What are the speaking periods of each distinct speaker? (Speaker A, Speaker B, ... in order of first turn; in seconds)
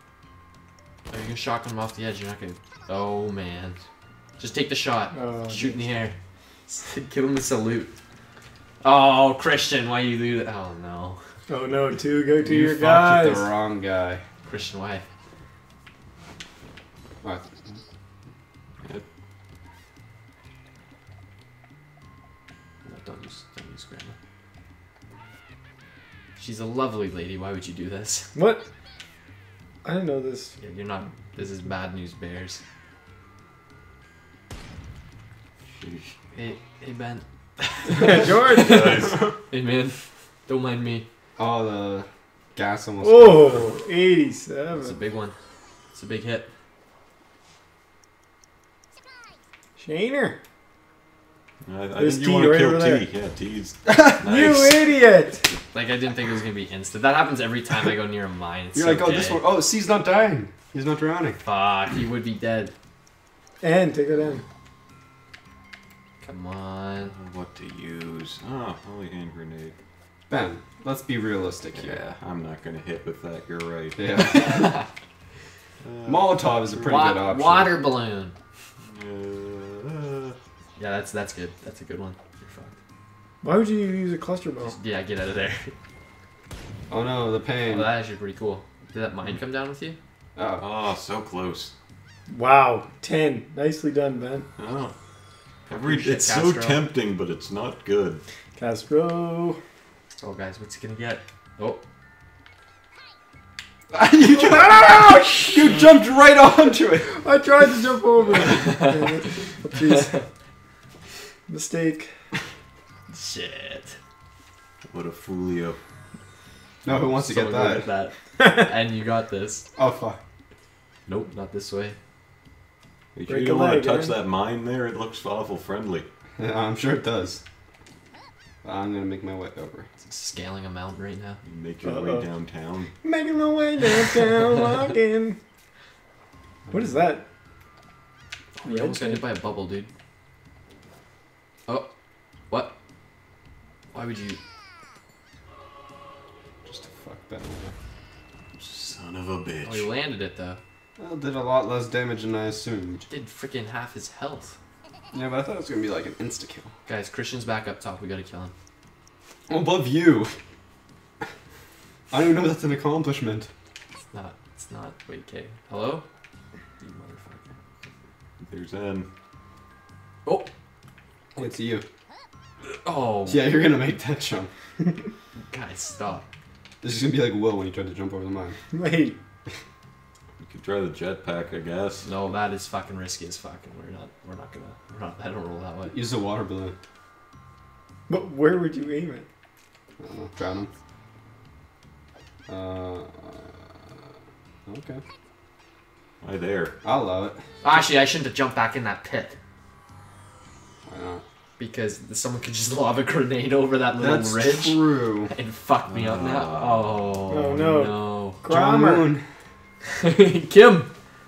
Speaker A: 1.1-3.8, 4.4-6.1, 6.7-8.0, 8.8-11.2, 14.4-15.1, 22.8-24.2, 26.4-28.3, 30.6-32.6, 36.3-41.1, 44.7-45.4, 45.9-46.5, 55.7-59.4, 61.4-62.7, 66.2-67.1, 74.2-74.9, 76.8-78.3, 80.8-82.8, 84.6-85.7, 87.7-90.0, 95.7-96.8, 100.2-101.8, 108.5-109.4, 109.9-110.2, 113.1-114.0, 117.0-119.7, 121.1-122.0, 130.0-131.4, 138.6-139.9, 142.5-142.8, 143.9-144.4, 149.7-150.6, 153.1-154.6, 156.9-158.5, 164.1-166.1, 166.8-167.5, 172.7-173.6, 175.5-176.2, 182.0-186.0, 197.6-199.4, 201.6-208.4, 209.9-210.9
Speaker B: 5.1-5.8, 11.5-13.5, 28.4-28.6, 29.8-30.6, 38.0-39.1, 43.0-45.0, 49.8-50.4, 52.0-53.1, 54.2-55.5, 63.6-64.4, 83.4-84.8, 92.3-94.5, 98.6-99.6, 107.0-110.2, 111.5-112.1, 123.3-124.2, 131.8-132.3, 133.0-135.4, 136.7-137.3, 138.6-139.2, 178.7-179.2, 188.1-189.3, 207.3-209.2
Speaker C: 12.4-14.2, 17.2-17.8, 41.4-43.7, 53.9-54.2, 58.7-61.4, 70.3-72.0, 74.0-74.8, 76.1-77.8, 86.9-87.9, 90.4-90.6, 103.9-107.1, 116.8-117.9, 119.8-120.2, 126.4-127.4, 128.6-129.9, 146.7-147.7, 151.0-153.1, 155.1-156.7, 159.5-160.4, 162.1-163.5, 171.4-171.8, 173.3-174.5, 176.8-178.6, 185.9-186.8, 190.0-190.7, 192.5-193.8, 194.7-195.0, 196.8-197.4, 200.9-201.2, 204.0-205.3, 208.5-209.2
Speaker D: 35.8-36.1, 38.5-39.3, 51.6-54.8, 67.0-69.7, 71.7-74.4, 75.8-77.0, 78.8-80.4, 90.6-91.7, 94.6-95.0, 95.7-98.2, 114.8-115.8, 123.2-126.1, 131.4-132.9, 148.6-149.9, 168.4-169.1, 180.4-182.1, 196.2-196.8, 205.9-207.2